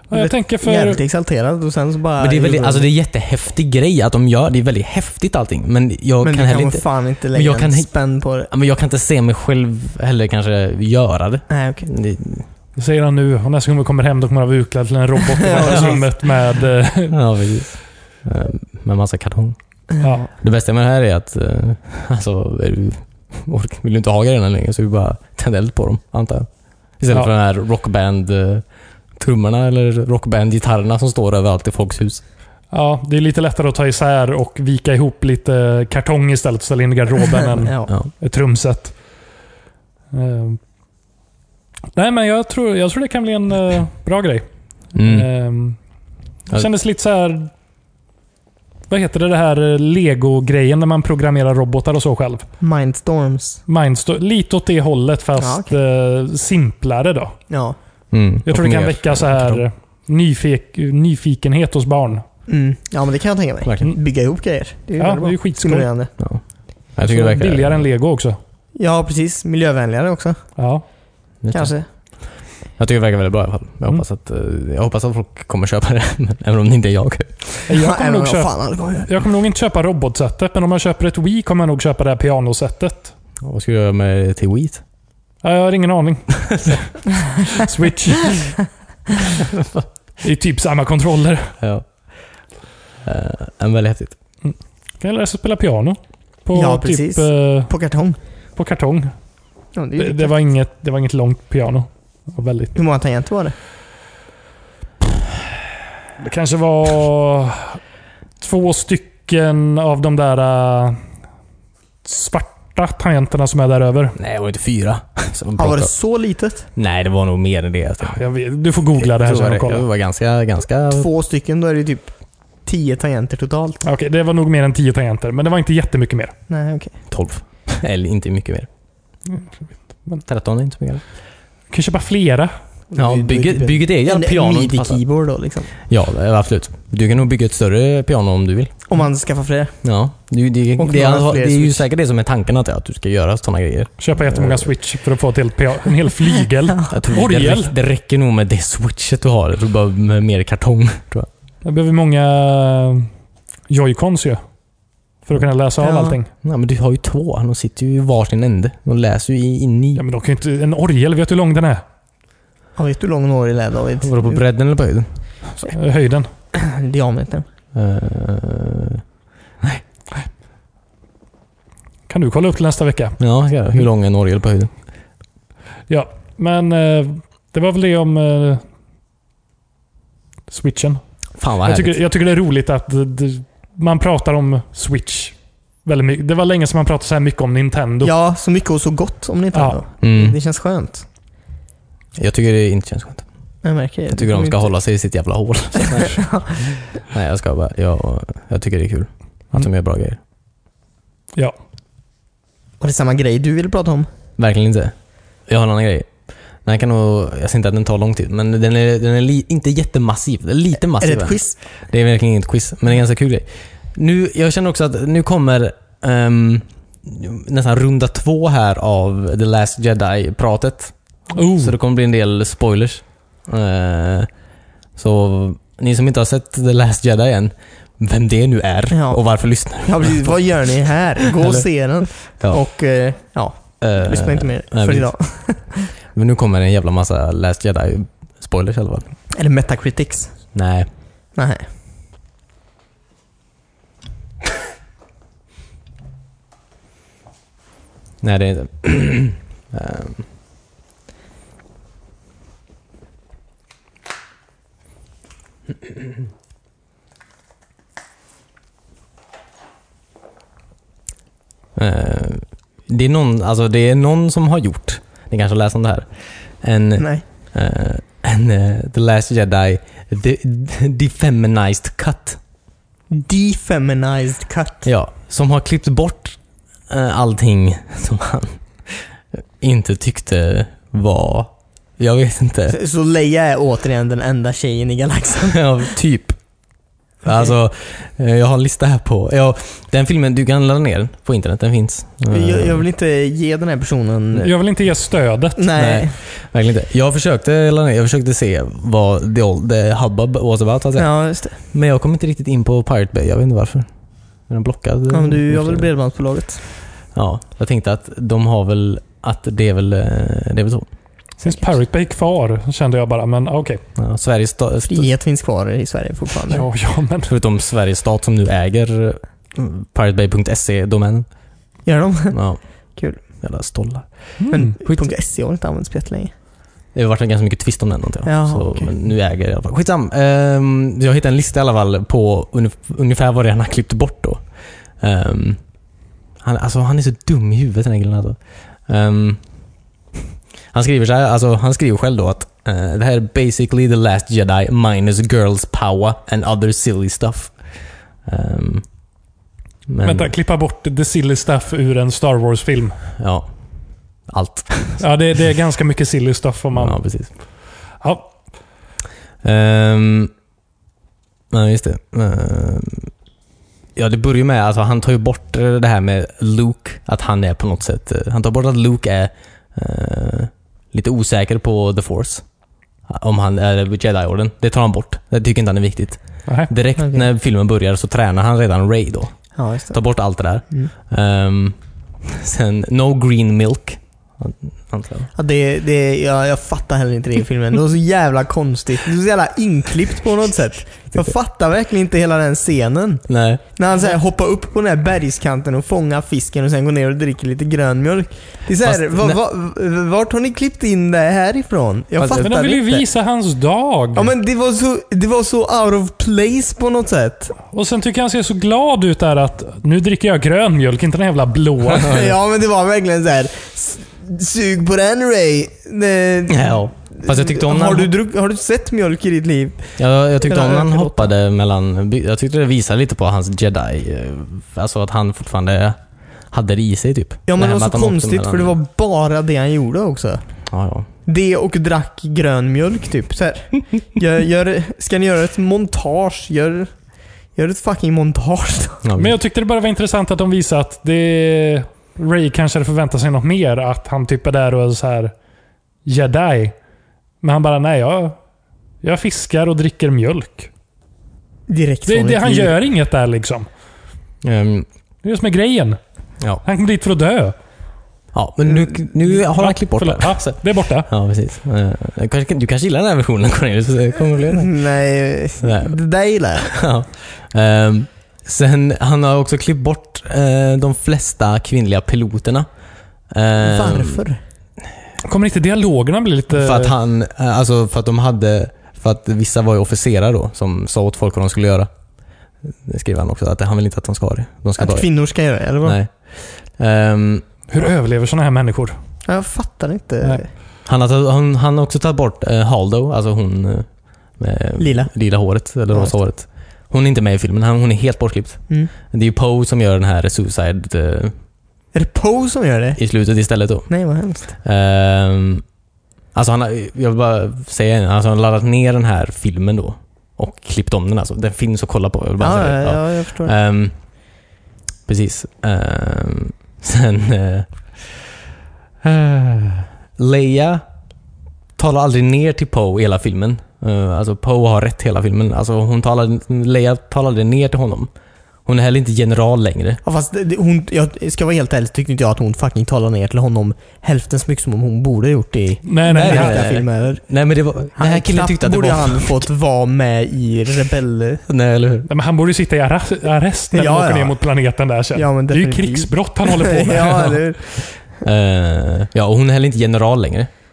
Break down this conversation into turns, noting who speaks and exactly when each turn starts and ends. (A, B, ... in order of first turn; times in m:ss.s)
0:00.1-0:01.0 A
0:00.1-0:02.9 B
0:02.2-0:07.9 C
0:06.2-0:08.5 B
0:08.5-0:12.5 C
0:11.5-0:11.9 B
0:12.8-0:17.2 A
0:15.5-0:16.2 B
0:15.6-0:16.0 C
0:17.1-0:19.6 C
0:20.0-0:20.3 B
0:20.0-0:20.3 A
0:20.3-0:32.2 C
0:32.7-0:39.0 A
0:37.5-0:37.9 B
0:40.1-0:40.6 A
0:42.0-0:44.5 A
0:45.0-0:45.3 C
0:45.0-0:45.8 A
0:46.5-0:47.5 A
0:48.9-0:52.5 A
0:52.6-0:53.6 B
0:53.7-0:57.4 A
0:55.4-0:55.7 B
0:57.5-0:57.8 B
0:58.1-0:59.6 C
0:58.5-1:02.2 A
1:02.5-1:06.1 B
1:03.6-1:03.9 C
1:05.0-1:05.9 A
1:06.2-1:07.8 C
1:07.0-1:08.4 A
1:08.8-1:10.4 B
1:10.6-1:10.8 A
1:11.4-1:11.7 C
1:11.5-1:11.9 B
1:12.8-1:17.7 C
1:17.7-1:23.1 A
1:17.8-1:19.1 B
1:23.4-1:24.8 C
1:25.4-1:28.6 A
1:29.5-1:29.8 C
1:30.2-1:31.6 A
1:31.6-1:31.9 C
1:33.0-1:34.2 C
1:34.4-1:37.7 A
1:36.5-1:38.2 B
1:38.6-1:39.1 A
1:39.8-1:40.4 B
1:40.0-1:42.7 A
1:42.8-1:43.6 B
1:46.2-1:47.8 A
1:48.4-1:51.0 A
1:52.0-1:54.2 A
1:54.2-1:55.9 C
1:55.6-1:56.7 B
1:56.8-1:58.2 C
1:58.0-1:59.9 A
1:59.0-2:01.1 C
2:00.9-2:02.1 B
2:02.6-2:03.8 B
2:03.8-2:06.3 A
2:06.5-2:06.9 B
2:07.1-2:08.7 C
2:09.3-2:10.2 A
2:10.3-2:11.0 C
2:11.7-2:12.5 A
2:12.9-2:15.7 B
2:13.0-2:15.0 C
2:15.8-2:18.8 C
2:18.9-2:19.8 B
2:19.8-2:24.7 C
2:20.8-2:21.8 B
2:24.0-2:27.7 A
2:26.9-2:31.3 C
2:31.6-2:33.1 A
2:33.7-2:34.4 A
2:35.3-2:36.3 A
2:35.8-2:36.2 B
2:36.4-2:40.0 C
2:40.0-2:41.8 A
2:42.8-2:44.4 B
2:44.0-2:45.1 C
2:45.7-2:46.3 A
2:46.5-2:47.4 B
2:47.7-2:49.0 C
2:52.1-2:53.2 A
2:53.2-2:54.7 C
2:55.9-2:58.6 A
3:00.5-3:01.0 A
3:01.4-3:02.0 C
3:01.6-3:08.1 A
3:08.0-3:11.0 B
3:09.6-3:09.8 A
3:10.0-3:10.4 C
3:12.2-3:13.3 C
3:13.6-3:14.7 B
3:14.1-3:20.2 C
3:15.8-3:16.6 B
3:22.8-3:24.1 B
3:24.4-3:24.9 C
3:25.5-3:26.1 C
3:26.6-3:41.0 C
3:31.0-3:31.6 B
3:41.3-3:41.8 A
3:41.5-3:44.3 C
3:45.0-3:50.4 C
3:48.9-3:55.9 B
3:51.4-3:52.6 C
3:53.8-3:55.1 C
3:56.1-3:59.1 C
3:59.3-4:00.4 B
4:00.5-4:00.9 C
4:01.3-4:01.7 B
4:08.2-4:10.3 C
4:21.8-4:32.4 C
4:27.0-4:27.2 B
4:33.1-4:34.9 B
4:34.8-4:36.4 C
4:36.9-4:42.8 C
4:42.7-4:45.6 B
4:45.4-4:46.4 C
4:47.2-4:52.8 C
4:52.3-4:54.5 B
4:54.4-4:55.6 A
4:55.6-4:56.2 B
4:55.8-5:03.9 C
5:01.0-5:01.6 B
5:04.5-5:05.9 C
5:05.1-5:06.6 B
5:07.1-5:10.9 C
5:11.4-5:13.8 A
5:14.0-5:15.1 C
5:14.9-5:16.6 B
5:16.5-5:17.3 A
5:17.3-5:21.3 C
5:21.8-5:22.4 B
5:22.3-5:22.6 C
5:23.0-5:23.2 B
5:23.4-5:25.1 C
5:24.4-5:24.7 A
5:24.5-5:26.3 B
5:26.9-5:34.4 C
5:28.2-5:28.9 B
5:35.0-5:35.6 C
5:36.4-5:39.4 C
5:40.7-5:47.6 C
5:48.2-5:48.9 C
5:49.9-5:50.3 C
5:50.0-5:53.0 A
5:53.2-5:53.5 C
5:54.3-5:55.0 C
5:55.0-5:57.5 A
5:56.8-5:57.3 C
5:58.0-5:58.3 A
5:59.4-6:00.3 C
6:01.5-6:03.1 C
6:04.0-6:12.4 C
6:13.1-6:25.3 C
6:16.5-6:16.7 A
6:17.0-6:17.2 B
6:19.6-6:20.0 B
6:25.4-6:43.1 B
6:33.3-6:33.6 C
6:38.8-6:39.4 C
6:42.2-6:42.5 C
6:42.4-6:44.3 A
6:44.2-6:47.6 B
6:47.7-6:52.2 A
6:52.0-6:52.3 C
6:52.0-7:01.3 B
6:56.5-6:58.1 C
7:00.0-7:06.0 C
7:06.5-7:08.8 C
7:07.5-7:10.4 B
7:10.7-7:11.1 C
7:11.3-7:16.9 B
7:17.5-7:19.0 B
7:19.0-7:19.4 C
7:19.2-7:25.3 A
7:26.0-7:26.8 A
7:27.4-7:28.4 A
7:29.0-7:30.7 A
7:31.7-7:32.8 B
7:32.1-7:33.7 A
7:34.4-7:34.9 C
7:35.2-7:36.0 A
7:36.6-7:37.6 A
7:38.3-7:44.7 C
7:39.3-7:41.1 A
7:44.5-7:46.7 B
7:45.6-7:46.0 C
7:46.6-7:52.7 C
7:53.3-7:54.2 C
7:53.6-7:54.4 B
7:55.2-7:56.9 A
7:56.5-8:01.9 C
8:02.8-8:05.1 C
8:04.8-8:06.0 B
8:05.8-8:07.5 C
8:07.7-8:09.0 A
8:09.3-8:10.5 B
8:10.8-8:21.4 C
8:14.8-8:15.1 B
8:21.9-8:23.0 B
8:23.0-8:23.9 C
8:23.9-8:24.5 B
8:24.5-8:25.6 C
8:26.3-8:33.9 C
8:32.4-8:33.5 B
8:35.1-8:38.3 C
8:39.0-8:40.8 C
8:41.8-8:48.1 C
8:48.7-8:50.0 C
8:50.0-8:57.2 B
8:55.9-8:56.7 A
8:56.1-8:59.5 C
8:58.0-9:01.4 B
9:01.5-9:02.1 C
9:02.1-9:07.4 A
9:03.7-9:04.4 B
9:05.2-9:07.9 B
9:07.7-9:10.5 C